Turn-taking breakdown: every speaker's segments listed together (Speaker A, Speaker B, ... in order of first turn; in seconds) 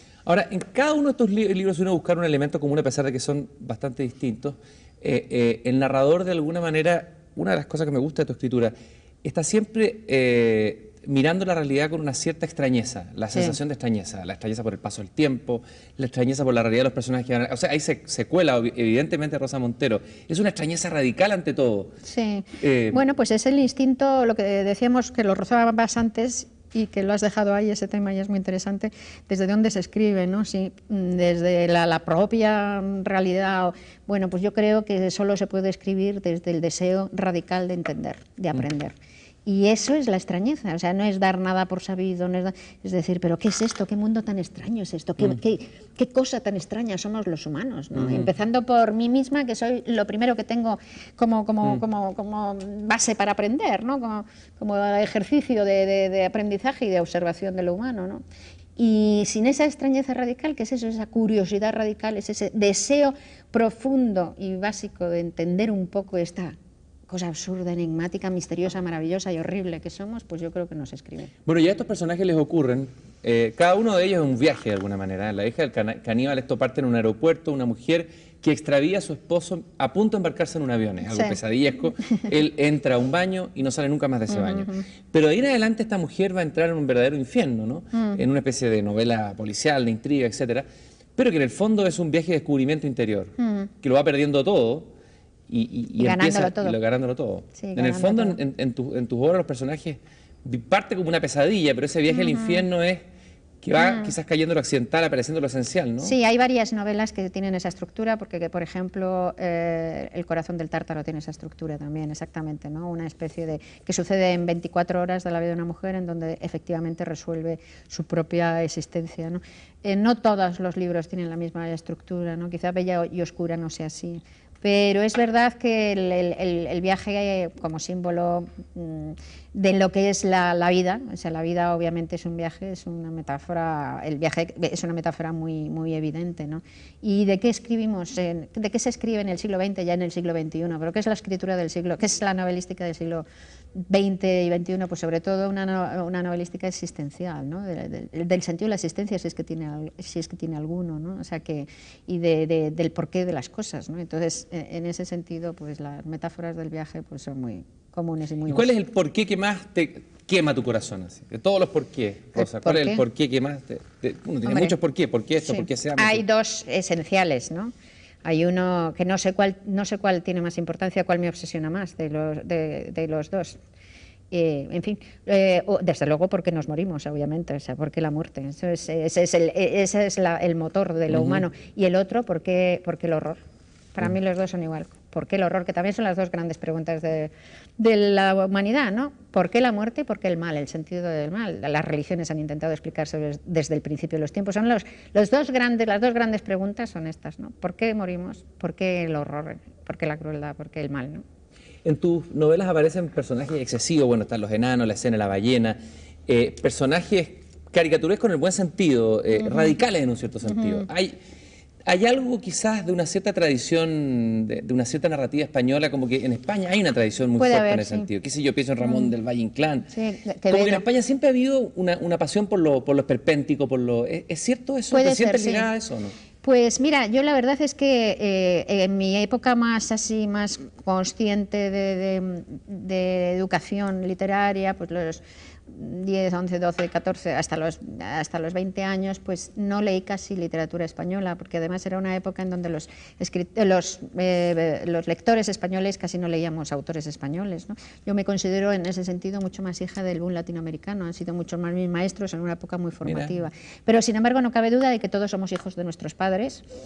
Speaker A: 0.2-21.9, 22.6-23.0, 48.0-48.3, 71.5-94.9, 95.5-103.0, 103.6-106.1, 158.5-166.2, 181.2-181.4, 201.8-211.2, 211.8-219.9, 220.5-226.1, 253.0-253.3
Speaker B: 22.1-38.9, 39.5-58.2, 58.8-66.5, 67.1-71.3, 81.1-81.4, 84.3-84.8, 87.9-88.2, 93.4-93.7, 96.0-96.8, 97.6-98.4, 102.2-102.6, 103.8-104.1, 106.0-158.7, 162.4-163.0, 164.4-164.7, 165.4-167.7, 168.2-173.6, 174.3-183.4, 183.9-201.2, 210.5-210.9, 217.4-218.1, 219.9-220.8, 224.9-225.7, 226.4-256.6